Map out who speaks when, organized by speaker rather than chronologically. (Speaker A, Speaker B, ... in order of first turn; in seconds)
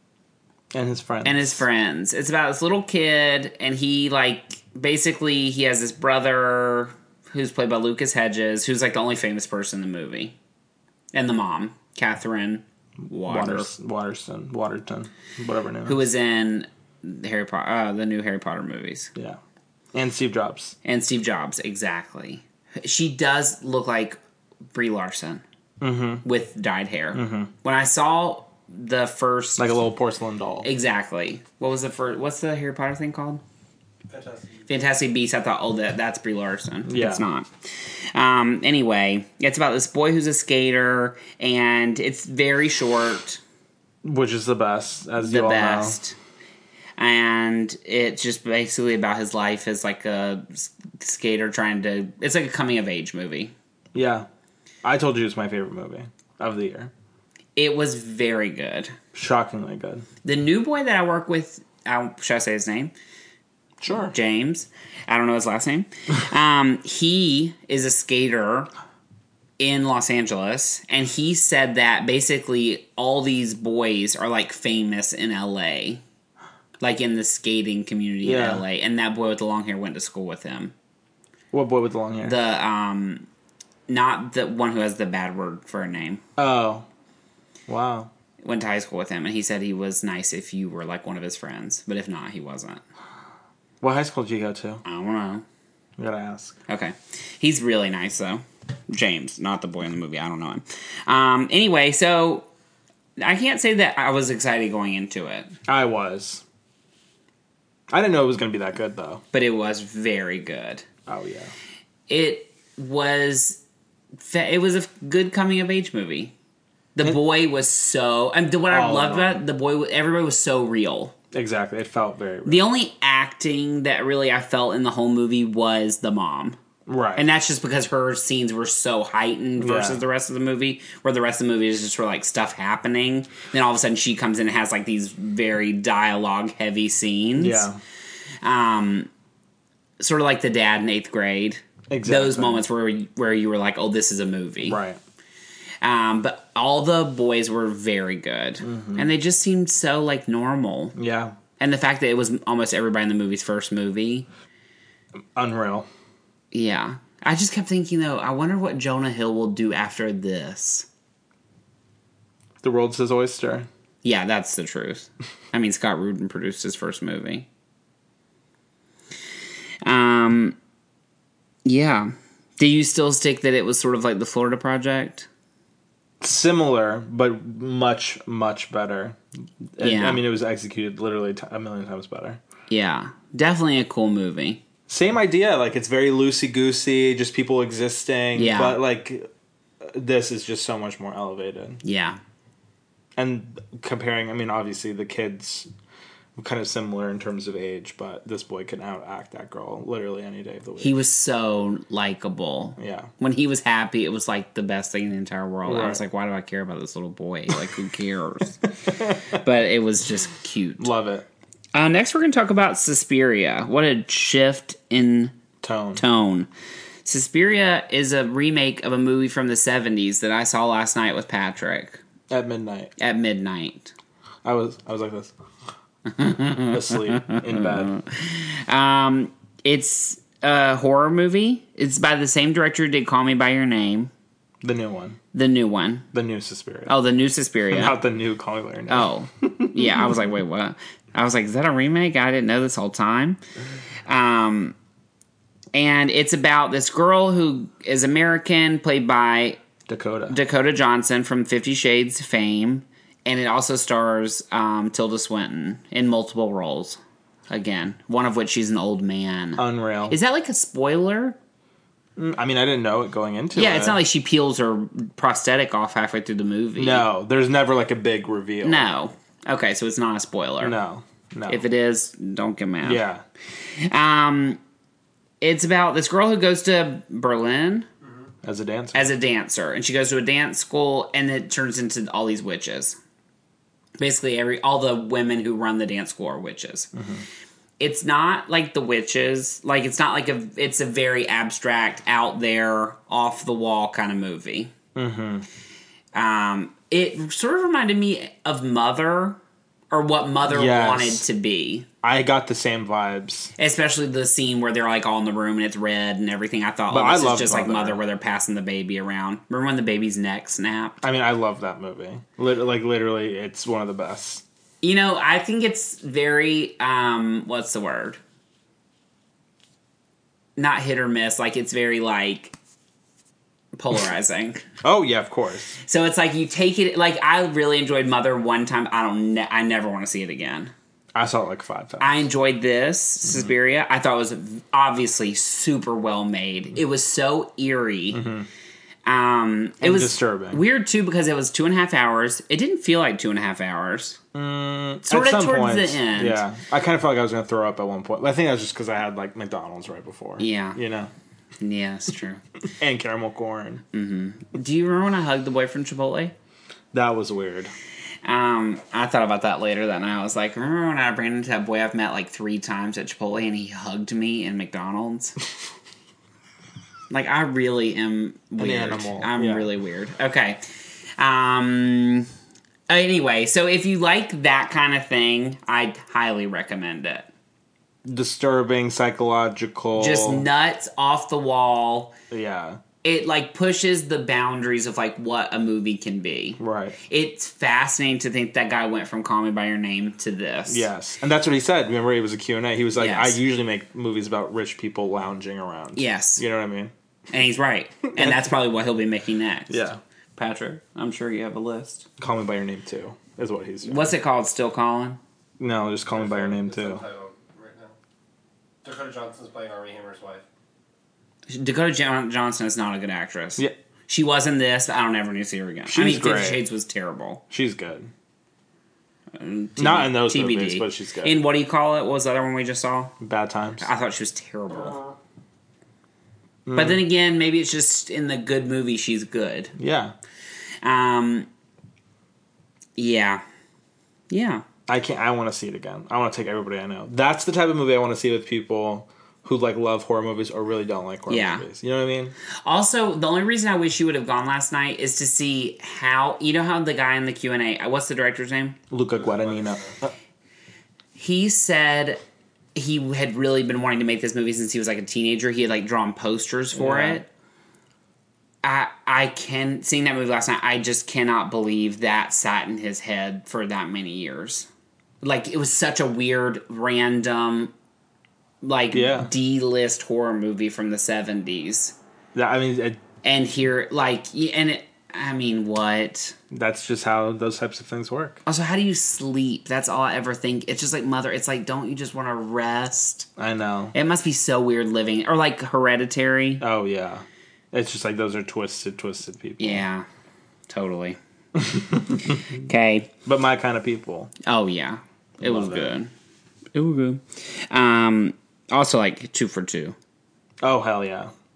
Speaker A: 0.7-1.6, 13.3-16.0, 19.9-20.7, 25.8-26.2, 27.1-27.5, 29.6-30.7, 36.9-37.2, 44.0-46.0, 53.9-54.3, 54.8-56.9, 59.1-60.0, 63.8-64.1, 78.2-78.6, 81.5-82.4, 86.4-86.8, 87.7-88.1, 93.8-94.8, 96.0-96.6, 105.7-106.4, 107.9-109.2, 111.1-111.5, 118.7-119.4, 121.3-122.7, 126.8-127.2, 129.6-130.0, 137.4-137.8, 141.9-142.6, 144.6-145.0, 148.6-149.1, 150.9-151.3, 155.3-155.9, 162.6-163.7, 176.2-179.2, 179.8-182.4, 184.9-189.3, 189.8-191.8, 193.2-195.7, 196.3-200.9, 202.8-203.1, 205.6-206.0, 210.8-211.3, 215.6-216.0, 222.3-222.9, 224.4-225.3, 226.7-227.9, 234.6-235.2, 236.1-236.9, 237.7-240.1, 249.9-250.4, 259.6-260.2, 262.2-264.0, 266.8-268.9, 270.6-271.6, 272.8-273.2, 278.4-279.1, 286.9-287.2, 294.9-295.5, 300.5-301.2, 302.0-303.5, 306.9-308.0, 311.0-314.4, 324.8-325.8, 331.1-332.2, 338.1-338.5, 339.8-340.6, 344.3-351.1, 352.8-353.8, 356.9-357.7, 368.6-369.7, 378.0-380.5, 382.3-382.8, 386.6-387.0, 390.7-396.9, 398.1-398.4, 399.7-400.0, 402.2-404.1, 405.6-407.0, 415.9-416.6, 417.5-418.1, 419.8-421.3, 423.2-423.9, 426.6-427.0, 429.8-430.1, 434.9-442.3, 448.9-450.1, 456.7-457.2, 468.9-469.3, 472.3-473.0, 476.5-478.4, 483.4-483.9, 486.6-489.9, 491.6-492.4, 493.2-494.3, 495.4-495.9, 500.6-501.3
Speaker B: 1.2-10.3, 11.1-13.7, 15.8-19.1, 20.8-24.2, 24.7-25.4, 26.2-29.9, 30.6-33.4, 34.7-43.4, 45.2-46.1, 47.0-53.5, 57.5-58.9, 60.2-62.9, 63.9-68.7, 69.6-76.0, 76.8-80.7, 82.2-83.3, 83.9-86.2, 88.4-92.8, 94.8-95.4, 96.7-102.5, 103.2-105.5, 109.3-110.8, 112.1-113.6, 114.2-116.3, 116.9-121.1, 122.5-126.6, 127.2-137.7, 138.4-139.1, 140.0-144.8, 145.8-150.9, 151.6-154.3, 156.5-160.9, 164.0-167.5, 169.8-170.6, 171.6-175.3, 179.8-180.2, 182.7-184.6, 188.3-188.8, 191.8-192.2, 200.8-208.7, 209.2-210.9, 211.7-215.3, 215.9-216.5, 217.0-222.0, 223.0-223.9, 226.1-234.1, 235.3-236.1, 236.9-237.9, 238.9-243.4, 244.1-244.8, 245.7-249.6, 250.3-257.0, 257.5-261.4, 263.5-267.1, 268.6-270.8, 271.5-273.0, 273.8-274.6, 275.4-277.9, 278.9-283.0, 284.0-286.9, 287.8-294.7, 296.1-299.4, 299.9-301.9, 303.6-311.0, 314.8-318.2, 320.6-322.5, 323.7-324.6, 325.8-330.7, 332.0-338.2, 339.1-344.2, 345.1-346.4, 350.4-350.8, 351.6-352.4, 353.9-356.3, 358.2-365.4, 367.1-370.6, 371.2-372.3, 372.9-377.3, 380.0-382.1, 383.0-390.9, 392.9-393.4, 395.9-396.4, 397.3-402.1, 403.8-405.2, 411.5-417.4, 419.3-423.1, 423.8-425.0, 426.7-429.7, 430.8-431.5, 433.0-433.4, 434.3-434.6, 441.3-441.6, 442.6-448.8, 451.1-452.2, 452.7-457.3, 458.6-464.7, 465.2-467.7, 468.6-471.9, 473.2-476.4, 478.4-483.3, 483.9-486.6, 489.6-490.1, 490.7-491.2, 492.6-493.1, 494.4-496.1, 496.7-499.9
Speaker C: 34.1-34.6, 406.1-407.9, 408.8-410.4, 449.3-449.9